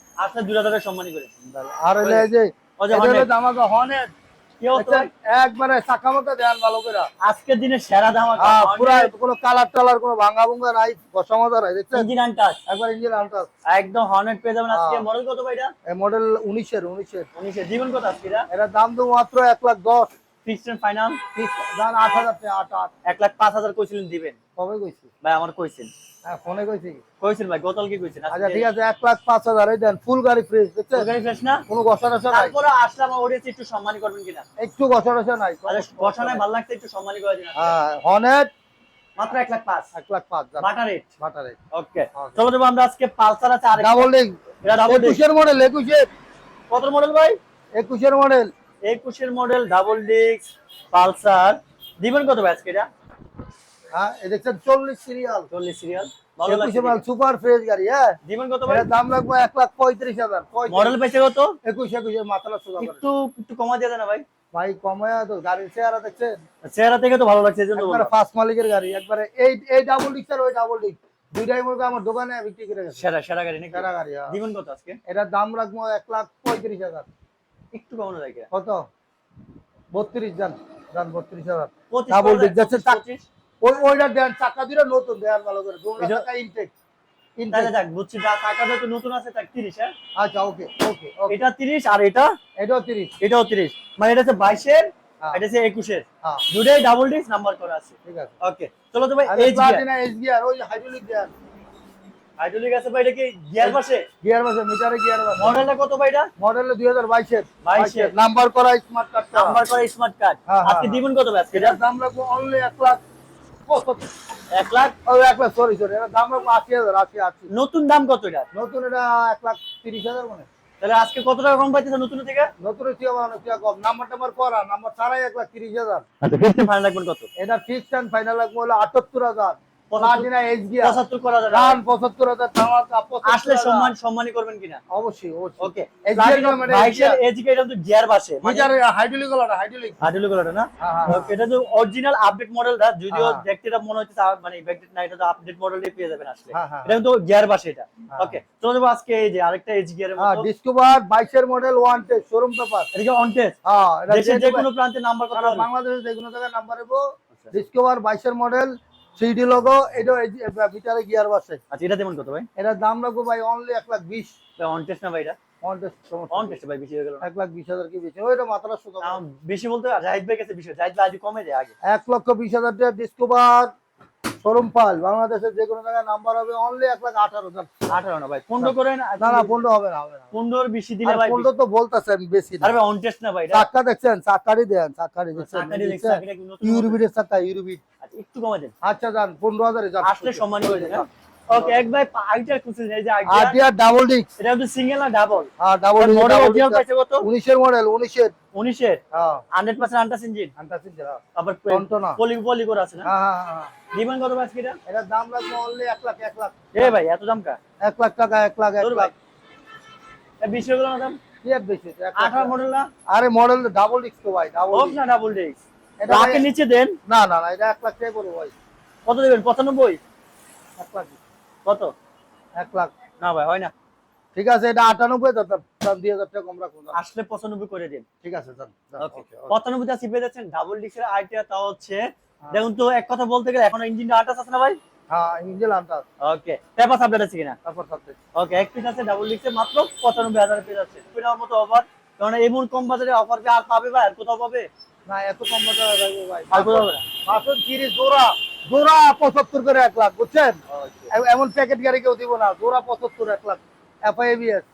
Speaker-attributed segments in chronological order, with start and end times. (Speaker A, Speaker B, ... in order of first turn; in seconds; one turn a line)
Speaker A: 0.2-1.3
Speaker B: 1.4-4.1
Speaker A: 2.0-3.3
Speaker A: 4.6-5.1
Speaker B: 4.7-7.1
Speaker A: 7.2-9.1
Speaker B: 8.4-12.1
Speaker A: 11.9-12.6
Speaker B: 12.7-13.5
Speaker A: 13.7-15.7
Speaker B: 14.7-15.0
Speaker B: 15.8-17.3
Speaker A: 17.3-18.5
Speaker B: 18.5-20.1
Speaker A: 20.4-21.2
Speaker B: 21.4-22.9
Speaker A: 23.1-24.4
Speaker B: 24.6-25.1
Speaker A: 25.2-25.9
Speaker B: 26.2-27.0
Speaker A: 27.2-28.7
Speaker B: 28.3-31.1
Speaker A: 30.9-31.6
Speaker B: 31.7-32.6
Speaker A: 32.3-34.4
Speaker B: 34.6-36.5
Speaker A: 35.7-37.8
Speaker B: 37.6-38.5
Speaker A: 39.2-39.9
Speaker B: 39.9-40.7
Speaker A: 40.6-41.1
Speaker B: 41.2-41.6
Speaker A: 41.7-44.1
Speaker B: 43.8-46.1
Speaker A: 44.6-45.2
Speaker A: 46.7-47.4
Speaker B: 47.7-48.5
Speaker A: 48.8-52.9
Speaker B: 53.9-55.5
Speaker A: 55.5-57.0
Speaker B: 56.4-61.0
Speaker A: 58.2-58.9
Speaker A: 60.7-61.6
Speaker B: 61.6-63.0
Speaker A: 62.8-64.2
Speaker B: 64.5-66.4
Speaker A: 66.6-68.1
Speaker B: 67.8-73.0
Speaker A: 72.9-75.0
Speaker B: 73.7-74.3
Speaker B: 75.1-77.1
Speaker A: 77.7-78.5
Speaker B: 78.5-78.8
Speaker B: 79.9-83.0
Speaker A: 81.9-83.3
Speaker B: 83.6-86.7
Speaker A: 86.0-86.2
Speaker B: 87.4-87.7
Speaker A: 87.5-89.9
Speaker B: 90.1-91.4
Speaker A: 91.3-92.3
Speaker B: 92.6-93.1
Speaker A: 93.2-99.8
Speaker B: 98.0-98.3
Speaker B: 99.3-101.3
Speaker A: 102.4-104.1
Speaker B: 103.6-105.7
Speaker A: 105.4-106.3
Speaker B: 106.4-109.6
Speaker A: 107.6-108.1
Speaker A: 109.3-111.8
Speaker B: 110.5-113.0
Speaker B: 113.7-114.1
Speaker A: 114.5-115.0
Speaker B: 115.1-117.5
Speaker A: 117.5-118.5
Speaker B: 118.5-120.5
Speaker A: 120.8-122.5
Speaker B: 122.6-126.0
Speaker A: 126.2-127.3
Speaker B: 127.4-133.9
Speaker A: 129.9-130.3
Speaker A: 130.8-131.8
Speaker A: 133.2-134.8
Speaker B: 134.9-137.2
Speaker A: 135.6-138.7
Speaker B: 138.4-140.0
Speaker A: 140.0-150.5
Speaker B: 140.8-141.3
Speaker B: 143.1-143.4
Speaker B: 146.5-147.0
Speaker B: 148.1-148.4
Speaker B: 150.2-152.9
Speaker A: 152.9-153.6
Speaker B: 153.6-154.7
Speaker A: 154.1-155.7
Speaker B: 155.3-161.6
Speaker A: 161.7-162.5
Speaker B: 162.6-164.3
Speaker A: 164.6-165.4
Speaker B: 165.6-166.6
Speaker A: 166.3-167.3
Speaker B: 167.2-169.2
Speaker A: 169.0-171.7
Speaker B: 171.8-173.7
Speaker B: 174.4-178.0
Speaker A: 177.9-179.6
Speaker B: 178.6-180.3
Speaker A: 180.3-181.5
Speaker B: 181.0-182.8
Speaker A: 182.6-183.7
Speaker B: 183.5-187.8
Speaker A: 185.4-187.0
Speaker A: 188.0-188.7
Speaker B: 188.8-191.8
Speaker A: 190.0-193.6
Speaker B: 193.2-194.3
Speaker A: 194.4-197.3
Speaker B: 195.6-198.3
Speaker A: 198.5-199.0
Speaker B: 199.1-199.4
Speaker A: 199.5-200.5
Speaker B: 200.6-202.2
Speaker A: 201.3-203.1
Speaker B: 203.0-203.7
Speaker A: 203.9-204.8
Speaker B: 204.9-206.9
Speaker A: 206.7-207.6
Speaker B: 207.8-209.1
Speaker A: 208.8-209.1
Speaker A: 210.4-211.2
Speaker B: 211.4-212.5
Speaker A: 212.2-212.9
Speaker B: 213.1-215.0
Speaker A: 214.7-217.0
Speaker B: 216.0-216.5
Speaker B: 217.1-218.5
Speaker A: 219.1-220.0
Speaker B: 220.8-221.2
Speaker A: 221.6-221.9
Speaker B: 222.6-222.9
Speaker A: 223.2-223.7
Speaker B: 224.3-227.0
Speaker A: 226.9-228.1
Speaker B: 228.2-229.6
Speaker A: 229.0-234.8
Speaker B: 235.1-236.1
Speaker A: 236.2-237.6
Speaker B: 237.6-238.2
Speaker A: 238.3-244.7
Speaker B: 245.1-250.6
Speaker A: 246.5-247.1
Speaker A: 250.7-251.1
Speaker B: 251.1-254.6